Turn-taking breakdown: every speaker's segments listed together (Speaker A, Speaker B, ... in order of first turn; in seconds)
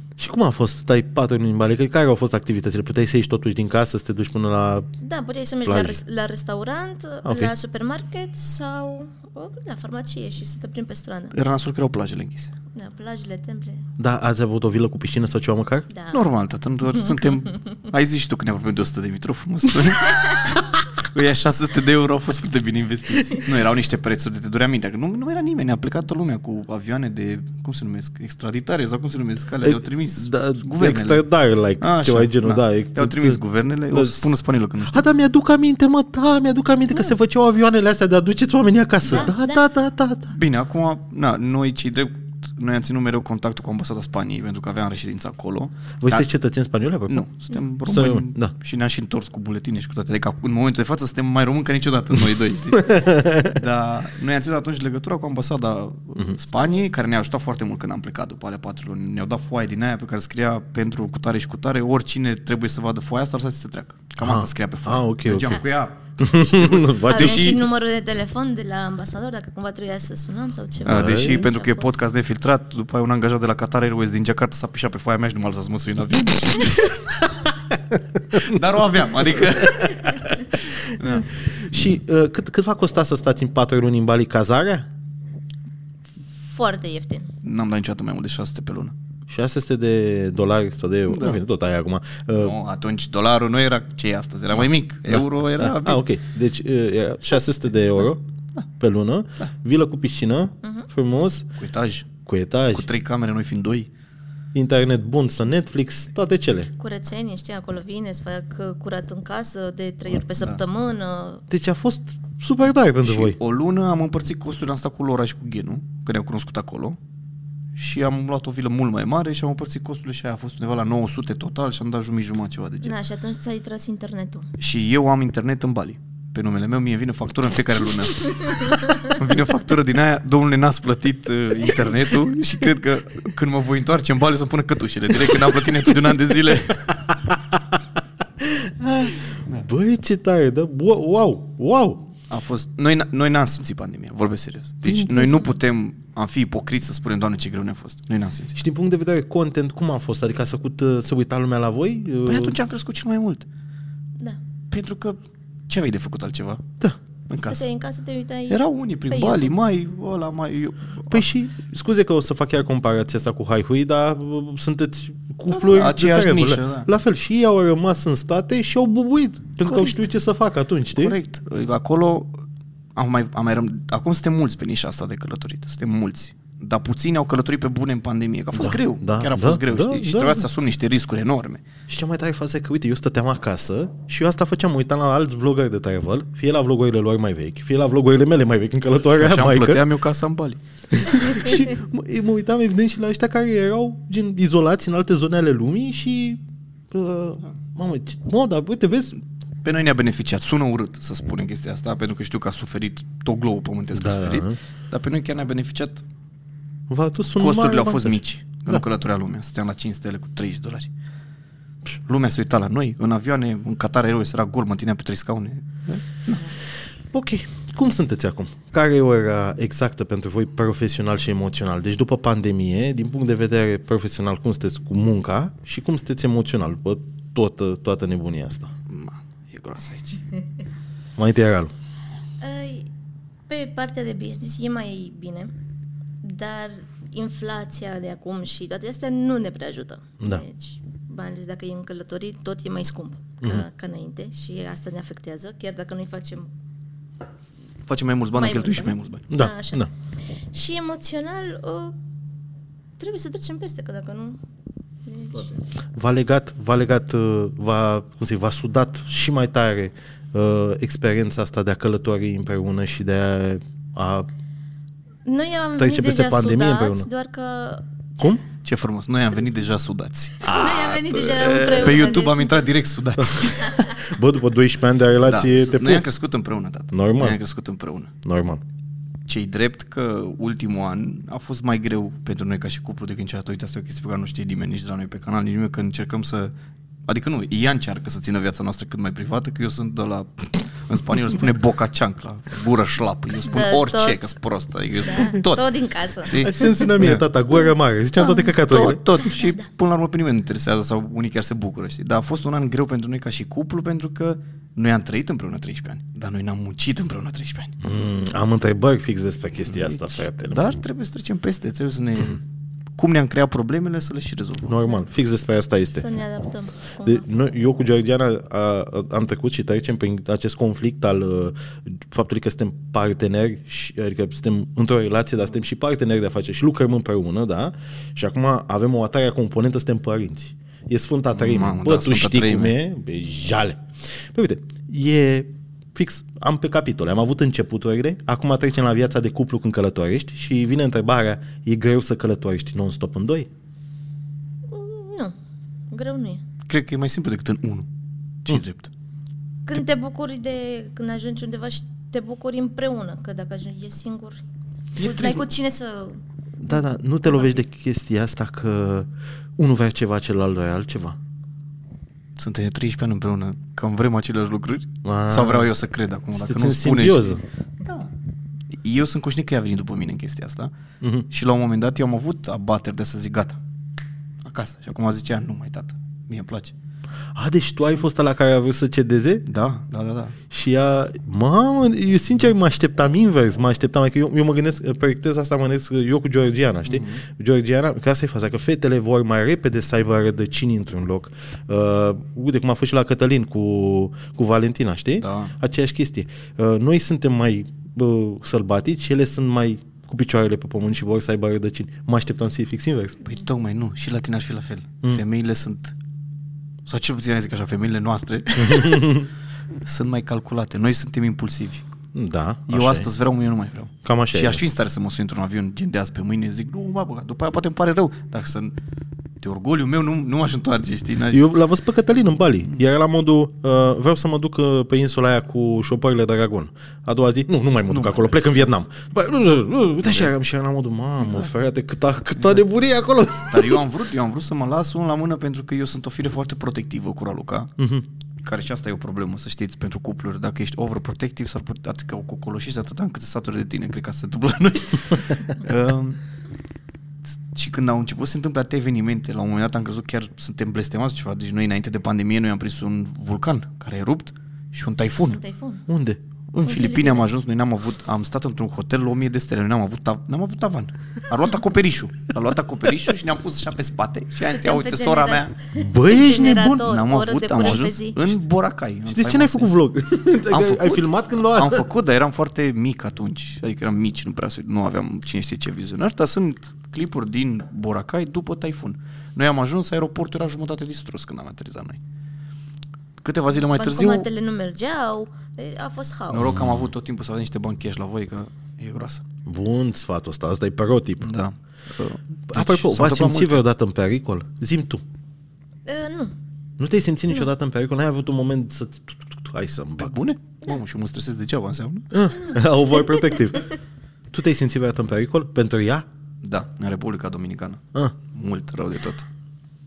Speaker A: 0.2-4.9, 5.6-6.0, 7.2-7.5, 14.0-15.9, 29.6-33.4, 33.9-40.3, 46.0-47.3, 47.8-48.5, 52.7-53.6, 64.2-65.6, 66.2-67.5, 70.9-71.5, 81.0-84.8, 89.3-92.6, 95.1-98.2, 98.8-101.5, 102.2-102.8, 104.5-106.7, 111.5-113.4, 137.1-137.6, 138.4-142.0, 148.5-152.6, 161.1-171.2, 178.5-180.4, 181.9-189.8, 190.9-199.2, 203.9-204.6, 206.9-208.2, 217.1-228.7, 231.2-231.7, 249.3-249.9, 255.9-264.3, 265.8-267.1, 270.4-271.8, 273.6-276.1, 276.9-277.4, 278.2-278.6, 296.3-299.0, 307.8-310.8, 314.7-316.1, 317.0-333.8, 334.3-343.5, 356.6-361.2, 365.0-365.7, 366.3-367.4, 371.0-371.3, 377.3-379.4, 380.5-403.3, 408.6-409.3, 412.1-413.1, 414.0-414.6, 421.3-433.8, 437.8-438.0, 455.9-456.2, 465.7-466.9, 469.1-471.9, 486.4-486.9, 489.4-491.3, 492.5-495.0, 496.8-500.1, 502.1-503.7, 504.3-506.1
Speaker B: 5.0-11.3, 12.7-13.8, 15.9-16.2, 39.0-39.6, 67.1-71.9, 86.5-87.3, 100.6-100.9, 106.8-111.4, 122.8-124.5, 128.6-129.0, 145.0-145.6, 157.3-159.5, 232.4-232.9, 233.5-235.5, 236.2-246.5, 248.3-249.8, 250.5-251.9, 253.0-254.4, 255.1-255.6, 265.2-267.8, 270.4-272.6, 293.5-294.2, 295.1-296.9, 299.3-299.6, 315.9-317.2, 344.7-345.3, 345.9-346.4, 349.6-354.4, 355.0-356.2, 455.3-455.8, 456.6-457.3, 464.5-468.2, 483.7-486.5, 495.9-496.3
Speaker C: 11.3-12.5, 16.1-31.2, 31.8-35.0, 40.3-46.3, 47.1-67.7, 70.8-77.2, 78.3-81.3, 87.4-88.9, 91.1-91.4, 92.4-96.0, 101.6-102.1, 102.7-103.9, 113.0-117.0, 117.8-122.9, 124.6-136.9, 142.3-148.5, 152.2-153.4, 154.7-155.2, 155.7-156.6, 157.3-157.6, 158.5-161.2, 165.5-166.9, 169.6-170.0, 170.9-172.3, 172.9-181.6, 189.2-190.6, 199.6-206.0, 207.4-210.9, 212.1-216.5, 228.9-230.2, 247.8-249.2, 268.6-270.6, 271.2-273.9, 275.2-278.1, 279.3-286.5, 287.1-295.6, 296.3-297.2, 298.2-307.7, 309.6-312.4, 313.0-314.8, 331.3-332.7, 346.7-347.9, 348.4-348.9, 354.9-355.4, 362.4-368.1, 368.8-370.7, 371.3-373.6, 374.4-376.7, 379.4-380.4, 386.9-387.2, 395.2-395.5, 403.2-405.9, 406.9-409.2, 409.8-411.9, 412.7-418.7, 419.4-421.4, 427.9-428.5, 430.0-430.3, 431.2-431.5, 433.5-437.7, 438.4-446.2, 447.5-455.4, 456.5-465.5, 466.8-469.7, 470.5-482.0, 483.2-484.3, 486.3-489.2, 491.2-493.6, 500.0-502.2, 506.4-509.2